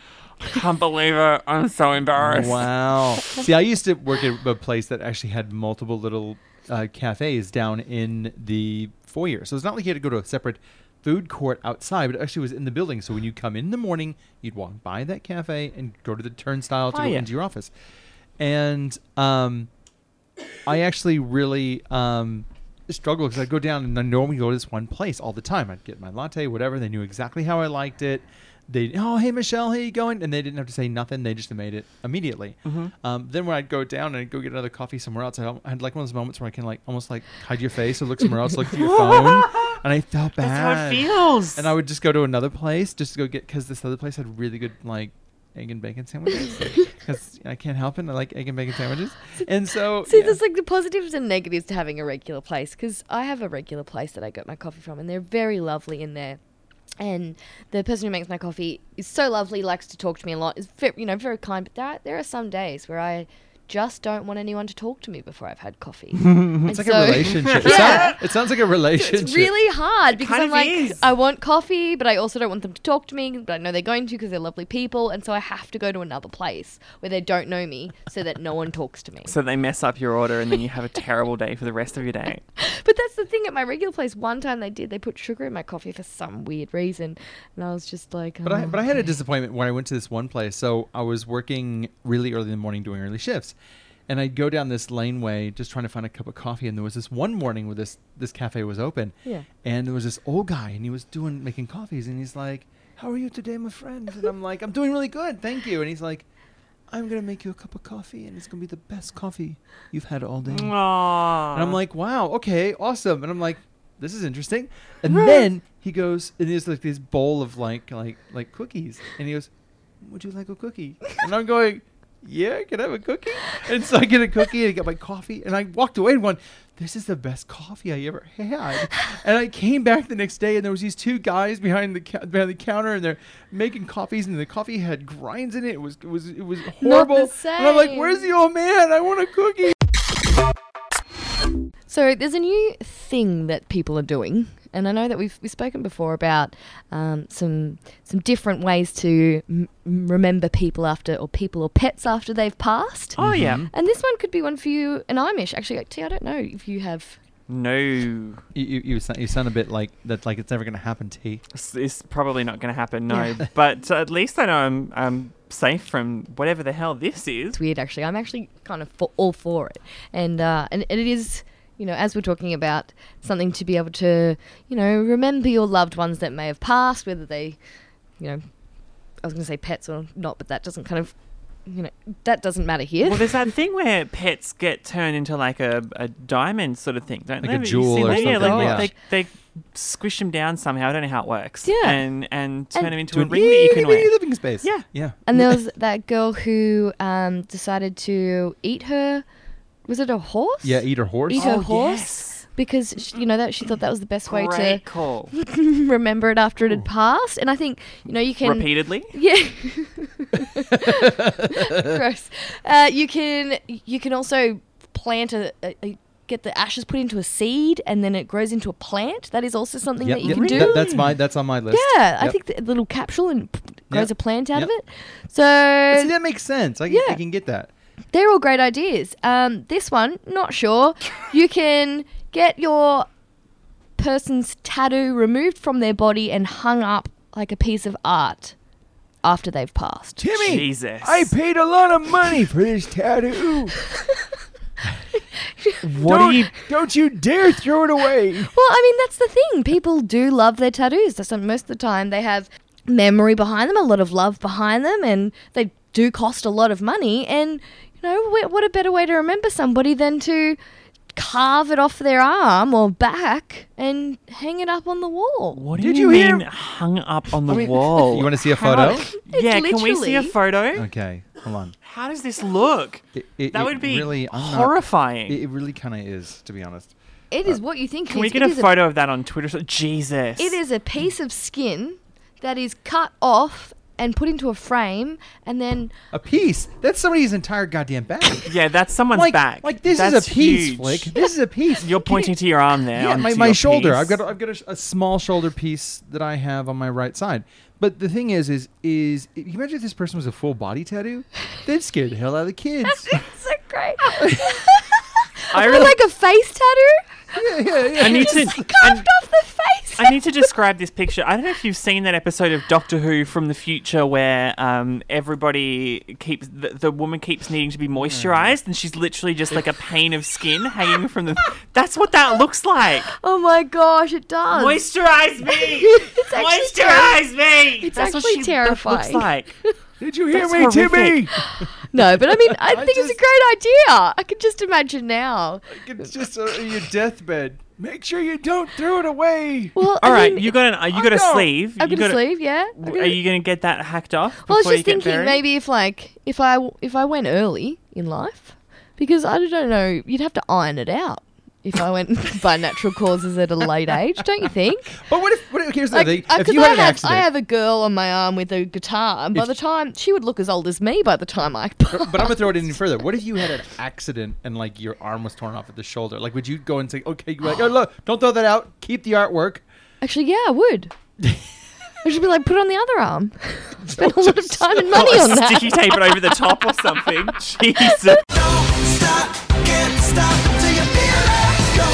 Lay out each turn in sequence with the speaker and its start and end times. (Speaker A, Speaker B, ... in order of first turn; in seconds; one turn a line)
Speaker A: 0.4-3.4
Speaker B: 2.2-17.7
Speaker A: 16.9-17.3
Speaker B: 18.4-19.7
Speaker B: 20.6-50.4
Speaker A: 32.6-32.9
Speaker A: 38.7-39.7
Speaker A: 40.4-41.7
Speaker C: 46.4-46.7
Speaker C: 50.0-56.4
Speaker C: 57.0-68.2
Speaker A: 66.2-66.6
Speaker B: 66.6-69.5
Speaker A: 67.3-68.1
Speaker C: 68.9-79.3
Speaker A: 70.1-71.1
Speaker A: 79.2-82.4
Speaker C: 82.6-89.1
Speaker B: 88.4-93.5
Speaker B: 94.1-106.2
Speaker B: 106.9-110.8
Speaker A: 110.4-111.8
Speaker B: 111.5-119.5
Speaker A: 115.1-115.5
Speaker B: 120.0-139.8
Speaker C: 136.8-138.3
Speaker C: 141.9-157.2
Speaker A: 153.1-153.7
Speaker B: 153.2-153.7
Speaker A: 157.5-158.4
Speaker B: 158.5-161.4
Speaker A: 161.5-167.6
Speaker C: 163.1-163.4
Speaker C: 167.5-177.6
Speaker C: 179.2-181.1
Speaker C: 181.7-183.5
Speaker A: 183.0-194.8
Speaker B: 187.4-188.9
Speaker C: 188.0-188.9
Speaker C: 191.6-192.1
Speaker B: 193.1-195.6
Speaker C: 195.2-199.2
Speaker C: 199.9-220.8
Speaker B: 200.6-201.5
Speaker A: 201.3-202.4
Speaker A: 204.3-205.3
Speaker A: 208.4-209.1
Speaker B: 210.8-211.8
Speaker B: 220.0-222.4
Speaker A: 220.2-221.2
Speaker C: 221.7-226.1
Speaker B: 223.9-224.7
Speaker B: 225.9-227.7
Speaker C: 226.9-227.2
Speaker C: 228.1-233.1
Speaker C: 234.0-238.5
Speaker C: 239.2-240.3
Speaker B: 240.2-243.8
Speaker A: 240.3-241.3
Speaker C: 245.5-245.8
Speaker B: 245.8-248.5
Speaker A: 246.0-246.3
Speaker C: 248.5-260.6
Speaker C: 261.1-265.6
Speaker A: 265.5-270.9
Speaker B: 265.7-266.5
Speaker B: 267.5-269.1
Speaker C: 269.2-270.3
Speaker B: 270.7-271.7
Speaker A: 271.8-275.4
Speaker B: 273.1-276.9
Speaker C: 277.3-278.8
Speaker A: 278.1-280.6
Speaker C: 280.4-285.9
Speaker B: 286.1-288.5
Speaker A: 288.5-291.2
Speaker B: 289.1-292.3
Speaker A: 291.8-294.2
Speaker B: 292.9-303.1
Speaker C: 302.8-310.4
Speaker A: 305.5-306.0
Speaker B: 305.6-305.9
Speaker B: 307.3-308.9
Speaker A: 308.0-309.0
Speaker A: 310.0-323.1
Speaker B: 318.0-318.6
Speaker C: 323.2-324.8
Speaker A: 324.5-329.5
Speaker C: 325.6-327.2
Speaker C: 327.8-329.2
Speaker B: 330.0-331.3
Speaker A: 330.3-331.3
Speaker C: 331.4-336.1
Speaker B: 331.9-333.2
Speaker B: 335.7-339.8
Speaker C: 339.7-340.6
Speaker A: 340.0-345.4
Speaker B: 340.9-341.6
Speaker C: 341.8-343.2
Speaker C: 344.4-355.0
Speaker B: 355.0-357.3
Speaker C: 355.9-362.8
Speaker B: 359.3-359.6
Speaker B: 361.8-369.6
Speaker C: 370.0-370.9
Speaker C: 372.0-376.3
Speaker B: 373.8-375.1
Speaker A: 374.9-378.2
Speaker B: 378.7-379.2
Speaker B: 379.9-381.0